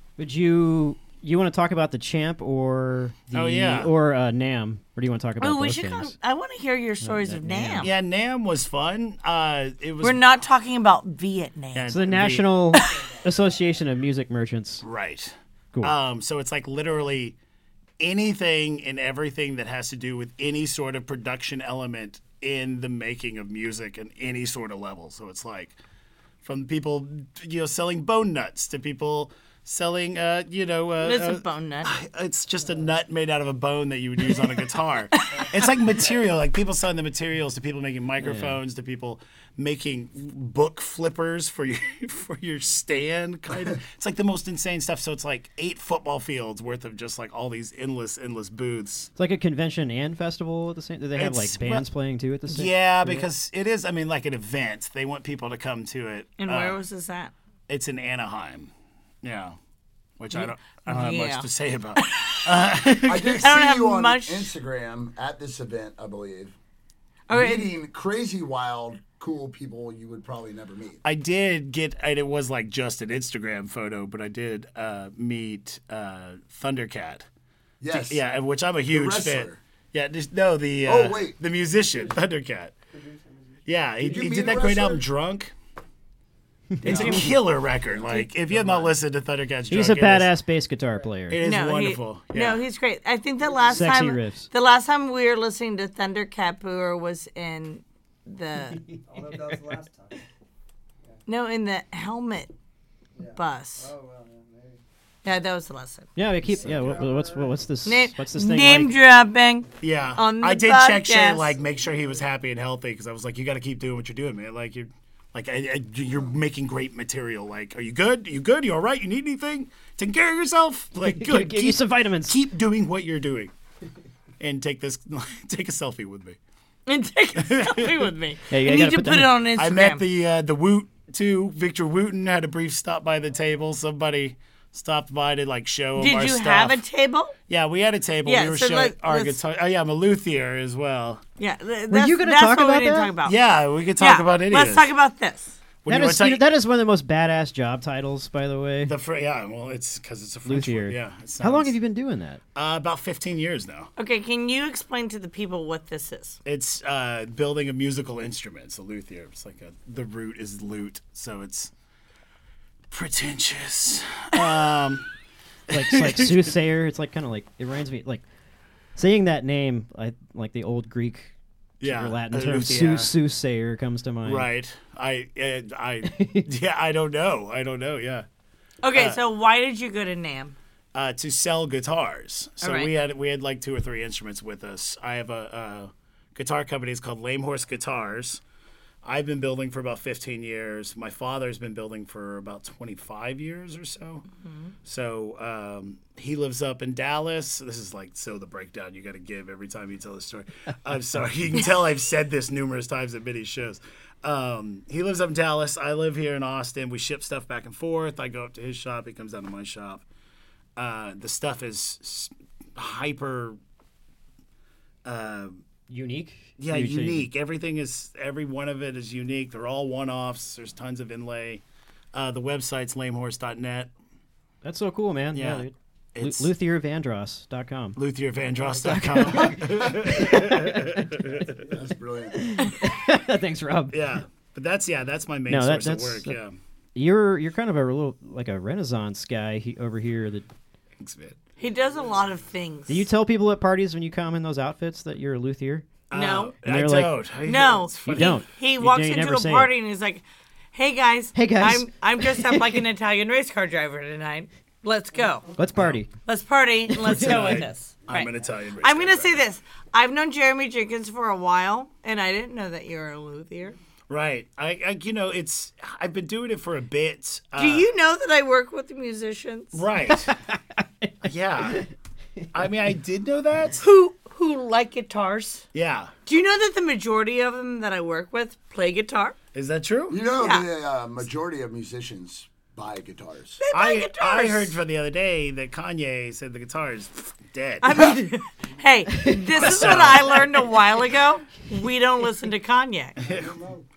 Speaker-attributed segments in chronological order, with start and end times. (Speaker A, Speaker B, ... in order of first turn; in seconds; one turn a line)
Speaker A: 0.2-6.1
Speaker B: 3.3-3.9
Speaker C: 5.4-7.9
Speaker A: 7.0-7.9
Speaker B: 7.8-10.2
Speaker C: 10.0-11.9
Speaker B: 11.8-12.5
Speaker A: 11.9-14.8
Speaker B: 14.8-17.4
Speaker B: 18.0-25.8
Speaker B: 26.4-49.1
Speaker C: 31.0-31.9
Speaker C: 35.2-35.7
Speaker A: 38.2-38.6
Speaker A: 49.2-53.3
Speaker B: 51.2-51.9
Speaker B: 52.5-56.8
Speaker C: 56.4-57.3
Speaker B: 57.7-58.7
Speaker B: 59.2-59.6
Speaker B: 60.2-63.5
Speaker C: 60.3-62.5
Speaker D: 63.0-66.6
Speaker C: 63.4-64.5
Speaker C: 67.3-67.7
Speaker D: 67.3-71.0
Speaker B: 71.0-77.3
Speaker D: 77.8-78.2
Speaker B: 77.9-82.7
Speaker D: 78.9-79.6
Speaker D: 80.8-81.4
Speaker E: 81.7-82.2
Speaker E: 82.9-84.9
Speaker B: 83.7-85.5
Speaker D: 84.0-85.0
Speaker B: 86.8-90.3
Speaker D: 86.8-87.3
Speaker C: 86.8-87.3
Speaker D: 88.5-88.9
Speaker A: 89.7-91.4
Speaker B: 91.3-92.6
Speaker C: 91.4-98.8
Speaker E: 93.4-93.9
Speaker A: 93.7-94.5
Speaker E: 99.0-100.2
Speaker C: 101.3-102.5
Speaker E: 103.2-104.8
Speaker C: 103.4-103.9
Speaker C: 105.2-106.1
Speaker A: 106.2-109.0
Speaker E: 106.4-107.6
Speaker C: 107.8-111.6
Speaker B: 109.8-123.5
Speaker A: 121.0-122.4
Speaker B: 124.4-126.4
Speaker C: 126.9-130.0
Speaker B: 127.4-128.0
Speaker A: 128.5-129.3
Speaker B: 129.6-136.8
Speaker C: 136.0-137.3
Speaker B: 137.5-141.2
Speaker C: 138.2-139.4
Speaker C: 141.4-143.4
Speaker A: 141.9-143.1
Speaker B: 143.2-144.9
Speaker C: 144.0-145.6
Speaker B: 145.8-146.4
Speaker A: 145.9-148.9
Speaker B: 148.8-151.7
Speaker A: 150.5-152.4
Speaker B: 152.6-153.9
Speaker C: 154.0-156.4
Speaker B: 156.4-161.7
Speaker B: 162.9-165.1
Speaker A: 165.7-168.2
Speaker B: 165.7-166.5
Speaker A: 169.0-174.5
Speaker B: 171.8-173.1
Speaker B: 174.2-178.3
Speaker A: 176.1-176.5
Speaker C: 178.8-180.6
Speaker B: 178.9-179.2
Speaker B: 180.9-188.4
Speaker C: 182.6-182.9
Speaker B: 189.0-194.3
Speaker B: 194.8-210.0
Speaker B: 210.8-213.6
Speaker B: 215.1-215.6
Speaker A: 215.9-217.3
Speaker B: 216.6-221.6
Speaker B: 222.1-223.9
Speaker A: 224.6-228.0
Speaker B: 225.3-226.5
Speaker B: 228.0-231.6
Speaker A: 228.8-231.3
Speaker E: 229.0-229.7
Speaker E: 231.4-231.8
Speaker D: 231.7-232.6
Speaker A: 232.3-234.2
Speaker B: 233.9-236.6
Speaker A: 235.5-236.4
Speaker A: 236.9-240.5
Speaker B: 241.0-241.4
Speaker C: 241.6-243.1
Speaker A: 242.9-245.9
Speaker B: 246.1-248.3
Speaker C: 246.1-246.6
Speaker A: 246.7-247.3
Speaker C: 247.4-255.5
Speaker A: 248.1-249.7
Speaker A: 251.3-252.8
Speaker A: 255.6-256.1
Speaker B: 255.8-256.0
Speaker C: 256.2-263.8
Speaker A: 256.9-257.6
Speaker B: 257.1-259.4
Speaker B: 264.1-267.9
Speaker C: 267.6-269.8
Speaker B: 269.7-270.3
Speaker A: 270.1-272.5
Speaker B: 271.2-271.8
Speaker B: 272.5-273.8
Speaker C: 273.8-275.7
Speaker B: 275.7-276.1
Speaker C: 276.3-279.4
Speaker B: 279.5-280.2
Speaker D: 280.1-283.6
Speaker C: 280.4-280.6
Speaker C: 283.6-284.8
Speaker B: 283.7-288.1
Speaker C: 287.8-293.2
Speaker A: 289.1-290.8
Speaker B: 289.6-290.7
Speaker E: 293.2-293.9
Speaker B: 293.2-293.5